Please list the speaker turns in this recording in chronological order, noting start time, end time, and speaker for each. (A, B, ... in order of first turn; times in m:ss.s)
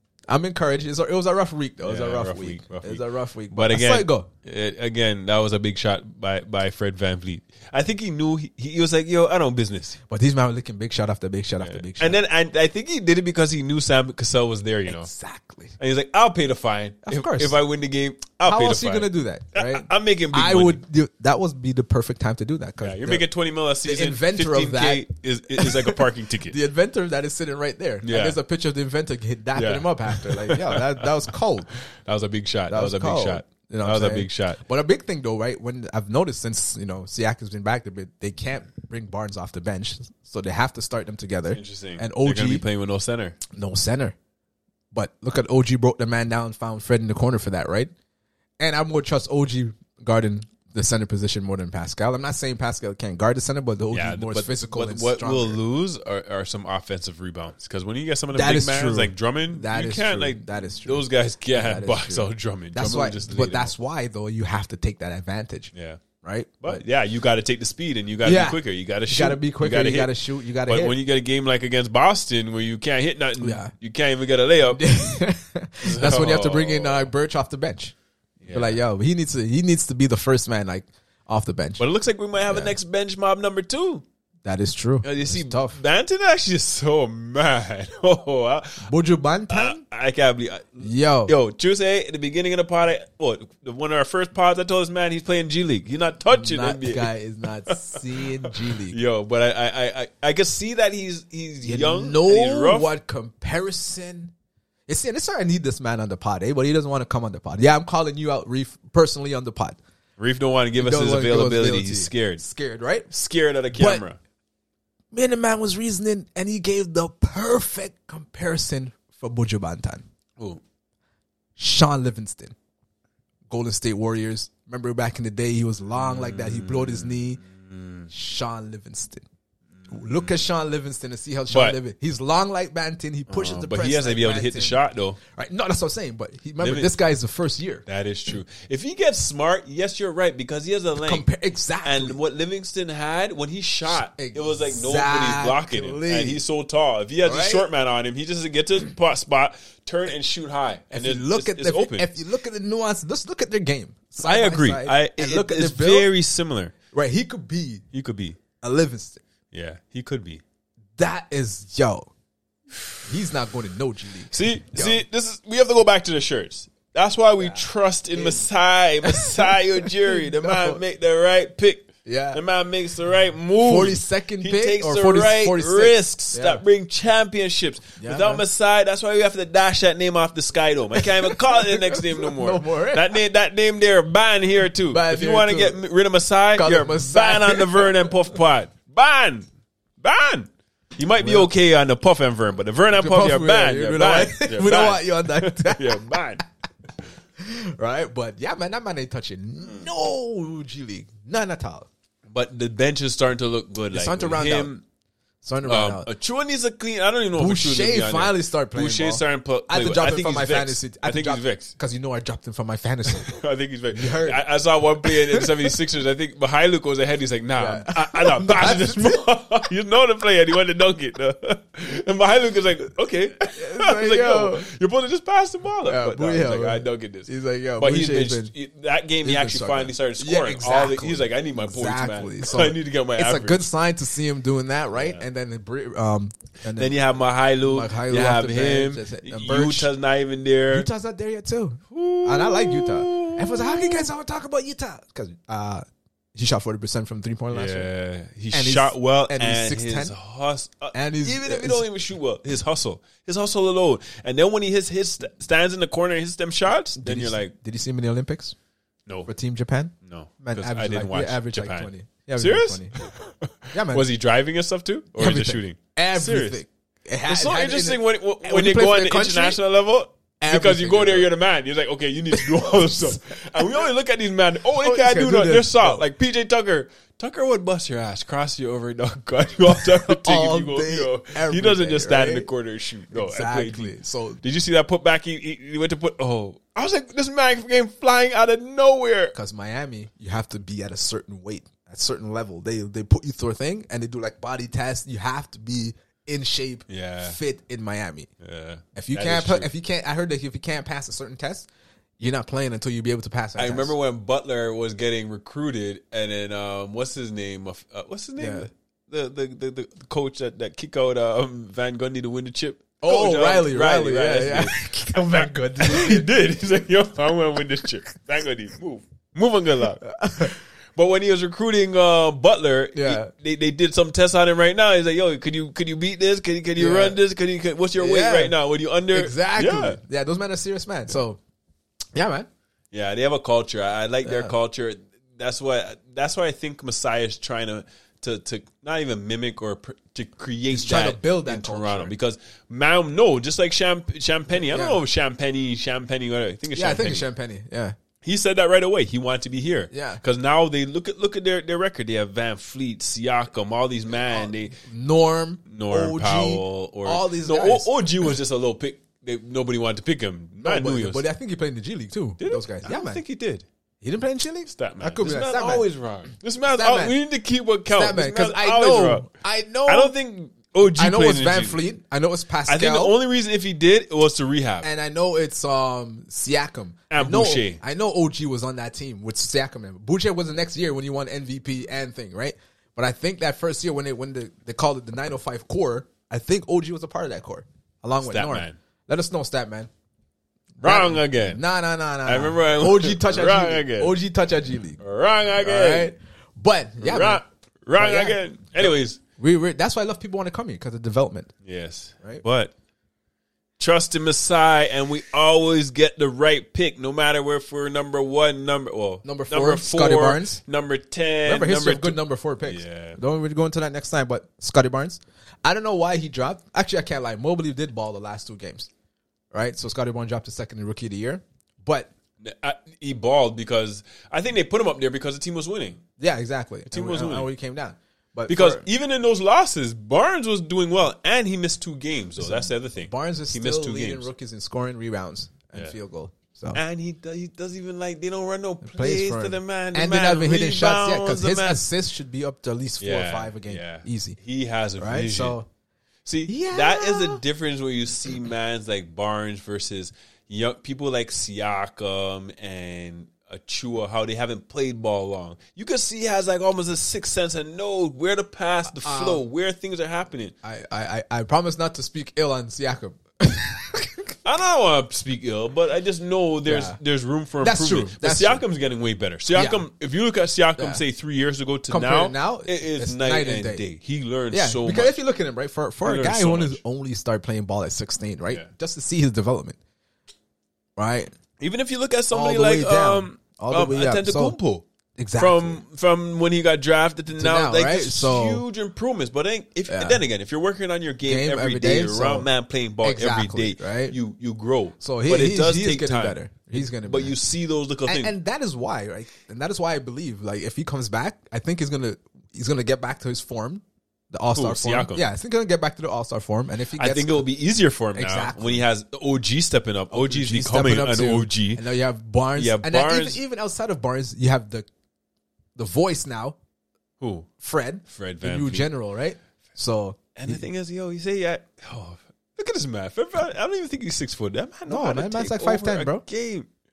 0:00.3-0:04.3 A
0:01.8-0:10.0 B
0:10.1-0:12.2 A
0:11.6-0:15.1 B
0:14.9-0:15.7 A
0:15.8-0:20.8 B
0:17.0-0:17.6 A
0:18.4-0:23.2 A
0:22.8-0:26.6 B
0:23.8-0:25.0 A
0:25.6-0:31.7 A
0:28.0-0:28.4 B
0:29.6-0:31.3 B
0:32.0-0:34.6 B
0:32.7-0:42.6 A
0:41.5-0:43.4 B
0:43.5-0:44.1 A
0:44.9-0:47.9 A
0:48.6-0:55.6 A
0:53.9-1:03.7 B
0:58.3-1:05.7 A
1:05.7-1:06.0 B
1:06.2-1:06.8 A
1:06.6-1:14.8 B
1:08.2-1:10.9 A
1:13.4-1:13.7 A
1:14.8-1:17.9 A
1:15.8-1:17.1 B
1:18.4-1:18.8 B
1:18.5-1:21.8 A
1:21.8-1:24.0 B
1:22.5-1:22.7 A
1:24.4-1:25.8 A
1:25.0-1:28.9 B
1:28.8-1:29.8 A
1:29.5-1:37.1 B
1:30.8-1:31.3 A
1:36.3-1:39.0 A
1:37.6-1:42.9 B
1:41.6-1:44.3 A
1:44.9-1:49.8 A
1:50.2-1:52.4 B
1:50.8-1:53.1 A
1:53.1-1:54.2 B
1:53.7-1:54.0 A
1:55.1-2:00.0 A
2:01.6-2:02.5 A
2:03.5-2:07.4 A
2:06.0-2:08.1 B
2:08.1-2:09.2 A
2:09.8-2:10.3 B
2:09.9-2:14.8 A
2:11.5-2:11.8 B
2:13.3-2:15.2 B
2:15.3-2:17.8 A
2:16.6-2:16.9 B
2:17.8-2:21.2 B
2:21.0-2:22.2 A
2:21.8-2:32.1 B
2:23.9-2:26.4 A
2:27.2-2:27.6 A
2:30.9-2:36.1 A
2:34.2-2:36.7 B
2:36.9-2:37.8 A
2:37.9-2:38.4 B
2:38.6-2:39.2 A
2:39.5-2:40.4 B
2:41.0-2:42.1 A
2:43.0-2:45.0 A
2:44.3-3:09.5 B
2:48.1-2:48.4 A
2:49.0-2:50.8 A
2:52.0-2:52.4 A
2:53.6-2:56.6 A
2:58.0-2:58.4 A
3:00.9-3:03.2 A
3:04.9-3:05.8 A
3:06.5-3:08.2 A
3:10.0-3:16.4 B
3:11.2-3:11.5 A
3:12.9-3:16.4 A
3:17.4-3:21.9 A
3:22.3-3:24.8 B
3:23.9-3:24.7 A
3:25.4-3:26.1 A
3:25.6-3:31.7 B
3:27.4-3:34.5 A
3:33.1-3:53.7 B
3:35.0-3:35.7 A
3:37.6-3:39.2 A
3:43.4-3:44.6 A
3:45.8-3:48.5 A
3:49.2-3:57.0 A
3:54.9-3:55.2 B
3:56.7-4:00.9 B
3:57.6-3:59.9 A
4:00.7-4:07.9 A
4:01.9-4:04.1 B
4:07.5-4:17.5 B
4:08.5-4:10.1 A
4:10.9-4:11.8 A
4:17.0-4:18.5 A
4:19.2-4:23.0 A
4:20.0-4:26.6 B
4:23.7-4:24.1 A
4:25.2-4:29.6 A
4:27.3-4:49.3 B
4:30.4-4:31.3 A
4:32.3-4:33.4 A
4:34.8-4:36.0 A
4:39.7-4:42.5 A
4:43.1-4:44.4 A
4:49.3-4:58.3 A
4:56.9-4:57.4 B
4:58.4-4:59.7 B
4:58.9-5:01.7 A
5:02.2-5:03.9 A
5:03.6-5:30.0 B
5:08.4-5:08.7 A
5:13.0-5:16.3 A
5:20.0-5:20.5 A
5:22.9-5:23.3 A
5:26.8-5:27.2 A
5:28.0-5:28.5 A
5:29.1-5:31.4 A
5:32.1-5:32.5 A
5:32.9-5:47.2 B
5:34.2-5:34.5 A
5:40.7-5:42.1 A
5:44.6-5:45.0 A
5:46.7-5:47.9 A
5:48.2-5:54.8 B
5:49.9-5:50.2 A
5:54.2-5:57.9 A
5:55.7-6:01.2 B
6:00.6-6:03.2 A
6:02.4-6:03.6 B
6:04.0-6:05.9 A
6:04.7-6:09.2 B
6:06.7-6:07.2 A
6:07.9-6:10.1 A
6:09.9-6:11.8 B
6:10.9-6:13.2 A
6:12.7-6:14.9 B
6:14.8-6:29.9 A
6:17.1-6:17.8 B
6:28.2-6:28.8 B
6:30.8-6:35.0 A
6:30.8-6:31.6 B
6:32.2-6:34.1 B
6:35.0-6:36.1 B
6:35.6-6:37.4 A
6:37.0-6:39.2 B
6:38.0-6:41.5 A
6:41.6-6:42.7 B
6:43.8-6:53.2 B
6:49.2-6:50.6 A
6:51.4-6:58.9 A
6:59.5-7:02.1 A
7:02.4-7:06.0 B
7:06.2-7:08.8 A
7:06.9-7:07.5 B
7:08.5-7:14.3 B
7:12.4-7:16.8 A
7:16.7-7:21.8 B
7:18.8-7:24.4 A
7:23.0-7:25.6 B
7:25.0-7:25.6 A
7:26.2-7:40.5 B
7:26.5-7:27.4 A
7:38.9-7:39.4 A
7:40.6-7:44.3 A
7:44.4-7:55.1 B
7:46.6-7:47.0 A
7:47.6-7:48.6 A
7:49.5-7:49.8 A
7:50.8-7:51.0 A
7:51.9-7:53.8 A
7:54.5-7:59.8 A
7:56.0-7:56.8 B
8:01.0-8:01.3 A
8:01.6-8:04.8 B
8:02.3-8:04.5 A
8:05.2-8:05.8 A
8:05.4-8:18.3 B
8:07.4-8:08.6 A
8:09.9-8:10.2 A
8:11.2-8:12.5 A
8:13.0-8:14.1 A
8:15.0-8:17.4 A
8:18.0-8:27.5 A
8:24.5-8:25.2 B
8:26.9-8:31.8 B
8:28.1-8:28.8 A
8:30.1-8:34.8 A
8:32.6-8:33.4 B
8:35.8-8:36.6 A
8:37.2-8:37.5 B
8:37.6-8:40.6 A
8:38.1-8:38.9 B
8:40.4-8:46.7 B
8:44.9-8:46.2 A